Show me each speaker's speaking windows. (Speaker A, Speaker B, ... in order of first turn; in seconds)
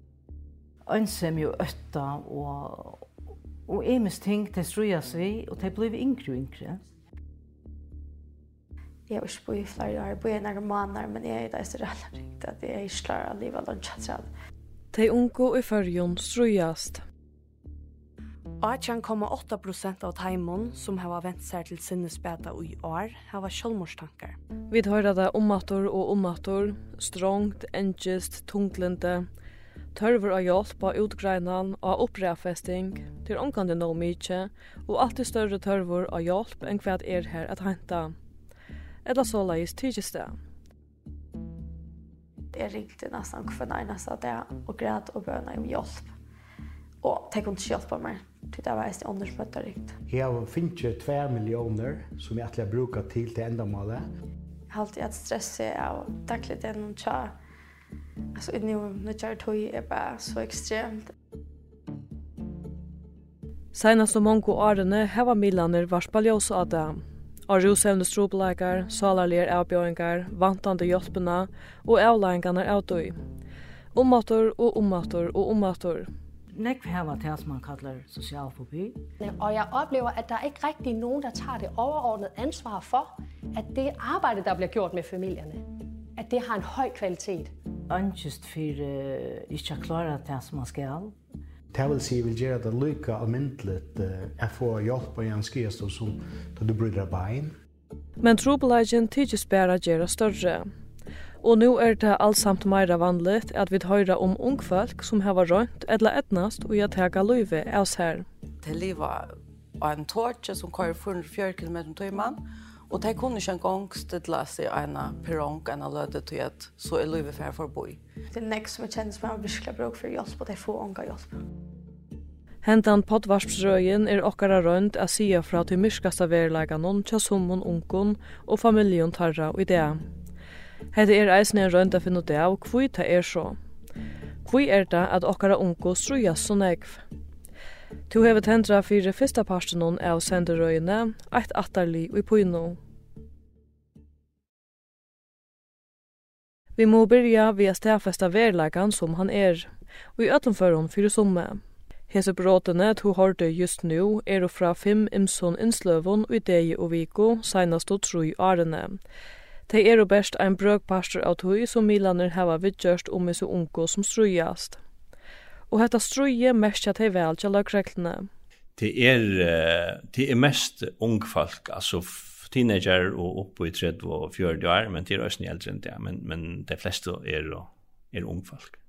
Speaker A: 0.9-3.0, 3.6-6.8, 76.5-79.0, 87.9-91.1
Speaker B: 9.1-14.3, 42.5-46.1, 47.0-50.0, 54.7-57.3, 58.4-61.1, 118.3-121.3
Speaker C: 14.9-17.0, 24.7-29.2, 29.9-38.1, 39.0-40.4, 63.7-73.1, 73.9-76.1, 98.2-100.6, 101.4-108.2, 122.6-130.0, 130.9-133.6, 134.4-137.0, 138.1-142.8, 146.8-159.0, 159.7-164.8, 165.7-168.3
Speaker D: 18.6-24.4
Speaker E: 50.1-54.0, 91.7-97.5
Speaker F: 79.2-87.5
Speaker G: 108.6-118.0
Speaker H: 168.8-178.8